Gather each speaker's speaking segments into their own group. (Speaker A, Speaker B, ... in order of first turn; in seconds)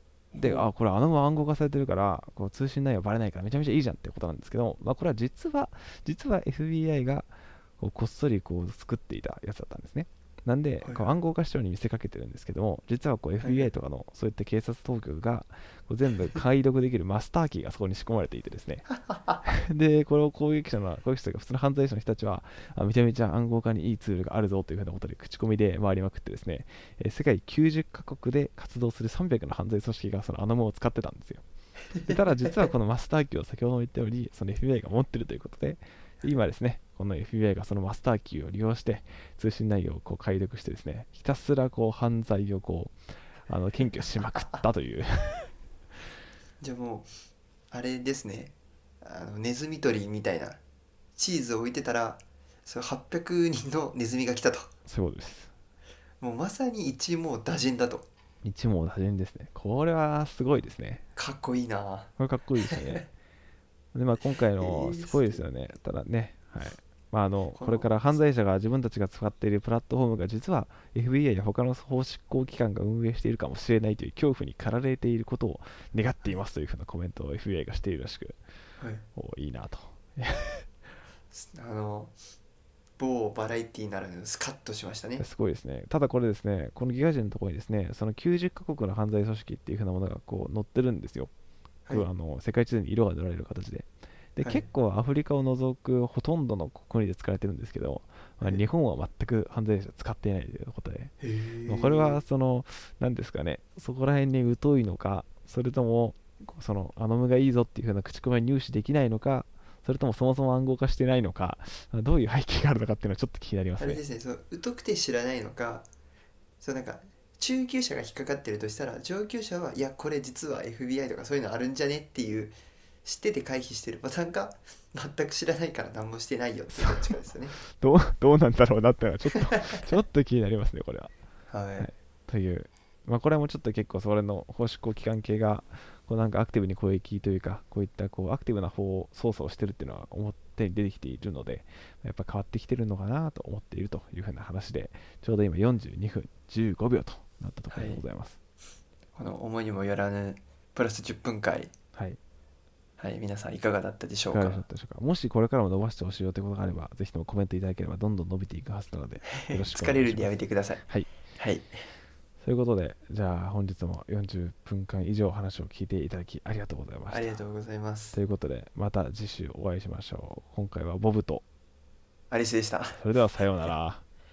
Speaker A: 0.3-0.7, 10.8-11.1, 13.4-13.7, 18.9-19.4, 46.6-47.1, 47.7-50.6, 51.1-54.7, 56.2-58.1, 61.1-62.1, 62.6-63.0, 64.6-65.4, 67.5-67.9, 78.8-79.0, 81.3-82.2, 83.0-85.2, 94.4-94.7, 101.2-102.2, 113.8-115.9, 116.6-127.5, 129.4-129.9, 131.5-131.9, 147.7-148.0, 149.1-151.7, 153.0-154.6, 159.3-161.8, 167.1-168.2, 172.3-173.0
Speaker B: 0.4-18.9, 19.4-31.4, 32.0-42.9, 43.5-45.5, 54.9-55.5, 58.4-61.0, 62.2-63.0, 63.9-78.4, 79.1-80.7, 85.2-91.3, 91.9-101.1, 101.7-114.0, 126.7-131.1, 131.8-148.4, 151.9-152.2, 154.3-160.3, 160.9-161.1, 162.4-167.4, 168.1-171.4, 173.0-174.0